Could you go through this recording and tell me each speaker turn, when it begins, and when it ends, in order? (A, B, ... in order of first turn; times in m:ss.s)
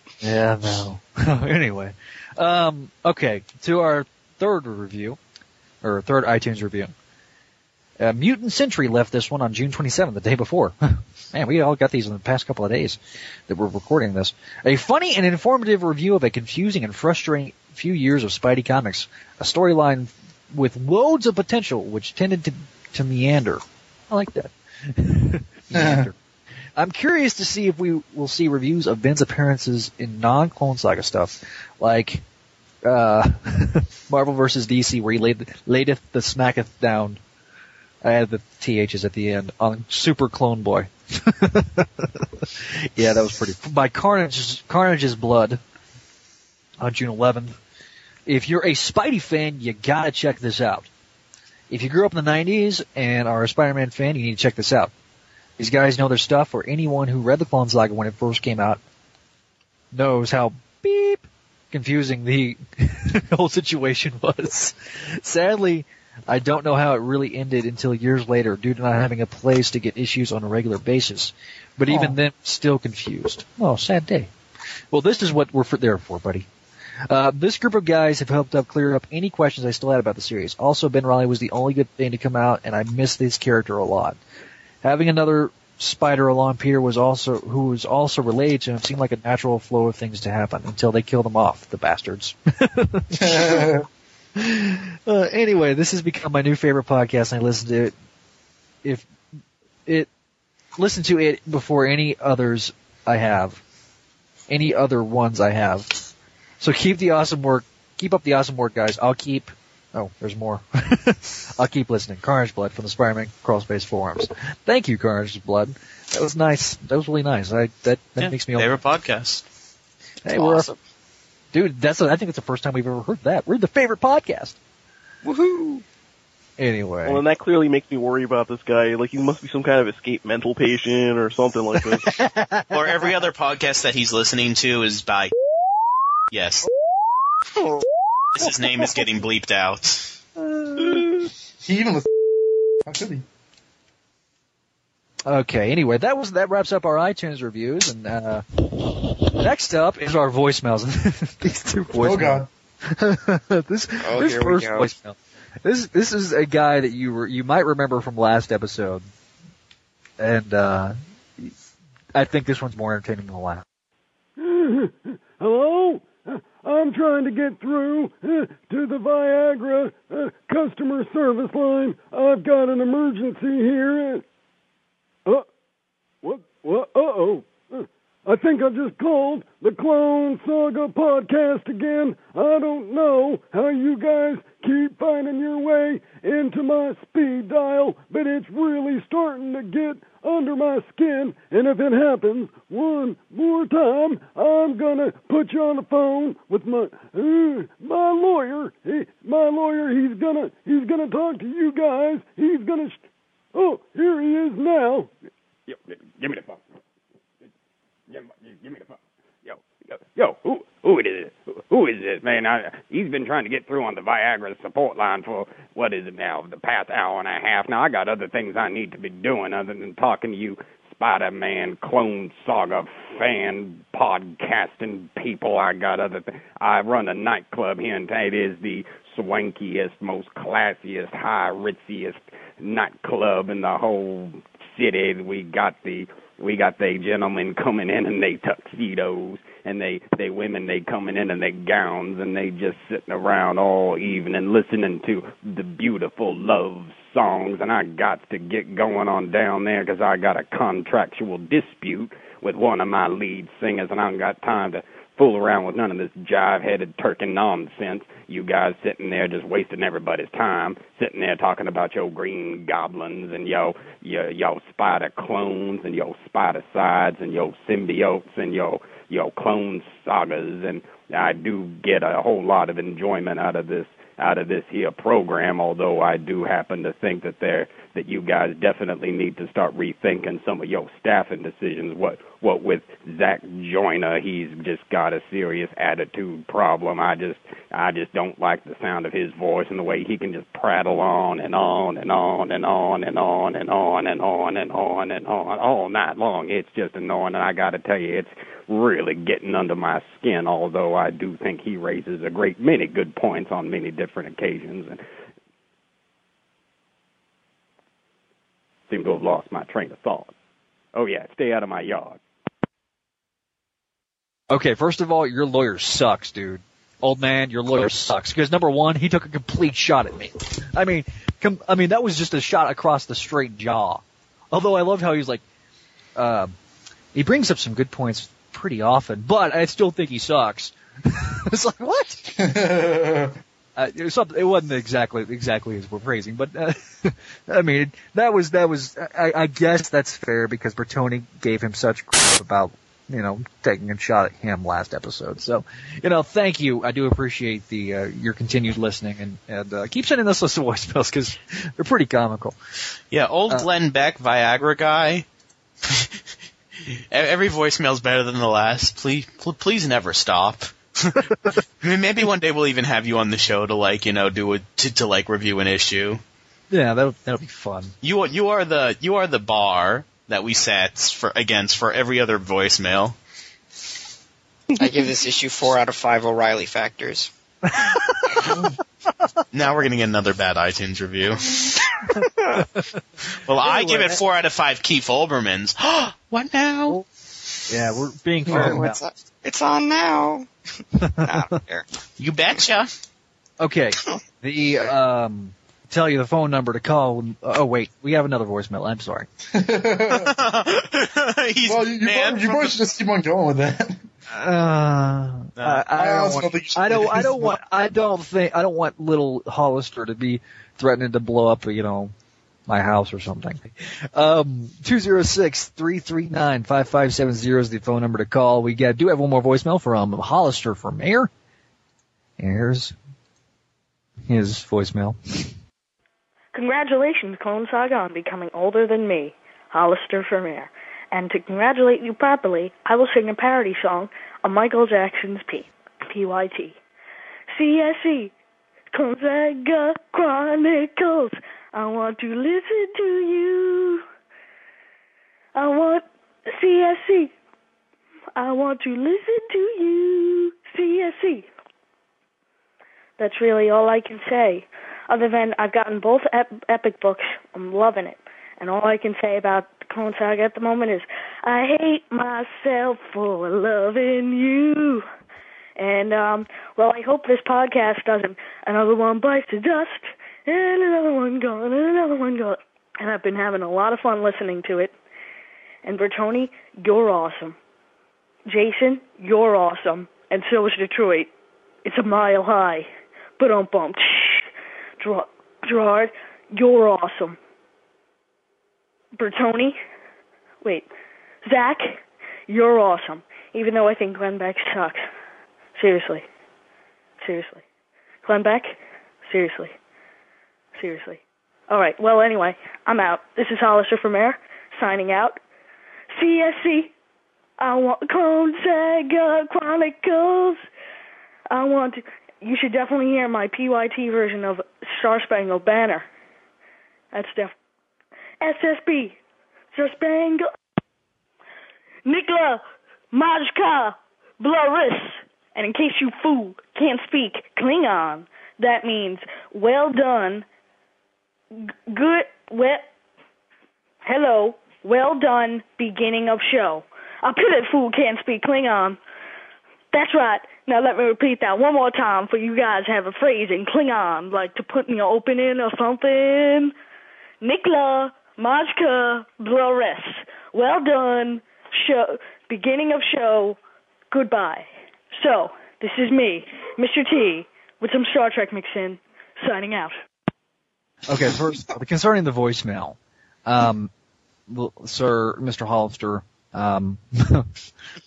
0:00.2-0:05.2 A
0:05.8-0:06.9 A
0:08.0-0:26.2 A
0:25.7-0:26.1 B
0:26.8-0:32.2 A
0:32.8-0:37.2 A
0:38.0-0:45.6 A
0:46.8-0:47.6 A
0:48.3-0:50.9 A
0:51.7-0:54.9 A
0:55.6-0:58.8 A
0:59.9-1:14.3 A
1:11.9-1:12.1 B
1:14.9-1:16.5 A
1:17.1-1:24.2 A
1:24.8-1:33.8 A
1:33.2-1:33.8 B
1:34.4-1:37.9 A
1:40.8-1:43.6 A
1:44.5-1:45.9 A
1:46.6-1:58.7 A
1:58.2-1:59.4 C
2:00.2-2:00.7 A
2:00.3-2:00.8 D
2:01.5-2:04.6 A
2:05.2-2:05.8 D
2:06.6-2:07.2 A
2:07.1-2:12.2 E
2:12.1-2:13.0 A
2:12.7-2:15.3 C
2:16.3-2:16.7 C
2:17.6-2:17.8 D
2:18.4-2:20.2 C
2:20.4-2:21.0 A
2:20.8-2:21.1 E
2:21.6-2:22.2 B
2:22.8-2:23.2 B
2:25.3-2:39.1 A
2:32.0-2:32.5 B
2:34.0-2:34.9 D
2:40.2-2:41.5 A
2:42.2-2:43.6 A
2:44.4-2:54.2 F
2:56.2-3:23.0 F
3:23.5-3:25.1 F
3:25.7-3:26.6 G
3:28.1-5:05.0 G
5:08.9-5:10.3 G
5:11.0-5:12.2 G
5:14.5-5:25.4 A
5:26.2-5:26.5 A
5:27.1-5:32.4 A
5:32.4-5:33.4 B
5:33.8-5:52.6 A
5:53.1-5:55.3 C
5:55.8-5:56.2 C
5:56.8-6:01.3 C
6:01.8-6:06.2 C
6:06.7-6:07.9 A
6:08.0-6:13.2 C
6:14.8-6:17.3 D
6:19.5-6:21.7 C
6:22.6-6:22.9 A
6:23.4-6:27.0 C
6:23.6-6:24.2 A
6:27.7-6:29.0 A
6:28.5-6:30.5 D
6:31.0-6:31.3 A
6:31.1-6:31.9 D
6:32.2-6:32.9 C
6:33.6-6:39.3 A
6:39.5-6:40.4 B
6:40.1-6:42.7 C
6:41.7-6:44.0 B
6:44.3-6:52.1 A
6:45.6-6:45.8 C
6:46.0-6:47.6 B
6:52.7-7:01.3 A
7:02.4-7:03.0 A
7:04.3-7:05.5 A
7:06.5-7:16.8 H
7:17.5-7:18.3 H
7:18.9-7:24.0 H
7:25.6-7:27.3 H
7:28.4-7:31.5 H
7:33.2-7:45.0 H
7:45.8-7:54.9 H
7:55.8-7:57.6 H
7:58.5-8:01.3 H
8:01.8-8:02.9 H
8:03.4-8:04.5 H
8:05.0-8:07.4 H
8:09.2-8:09.8 H
8:10.6-8:10.9 H
8:11.4-8:15.0 H
8:15.8-8:16.2 H
8:17.2-8:17.6 H
8:18.2-8:19.7 H
8:20.8-8:25.4 H
8:26.1-8:26.9 H
8:27.6-8:30.6 H
8:31.5-8:36.1 H
8:37.1-8:37.5 H
8:38.4-8:39.2 H
8:39.7-8:40.4 H
8:42.1-8:42.6 H
8:43.1-8:50.4 H
8:51.6-8:52.8 H
8:54.0-8:59.0 H
8:59.9-9:06.7 H
9:07.4-9:13.6 H
9:14.1-9:20.0 H
9:21.1-9:23.9 A
9:24.5-9:27.5 A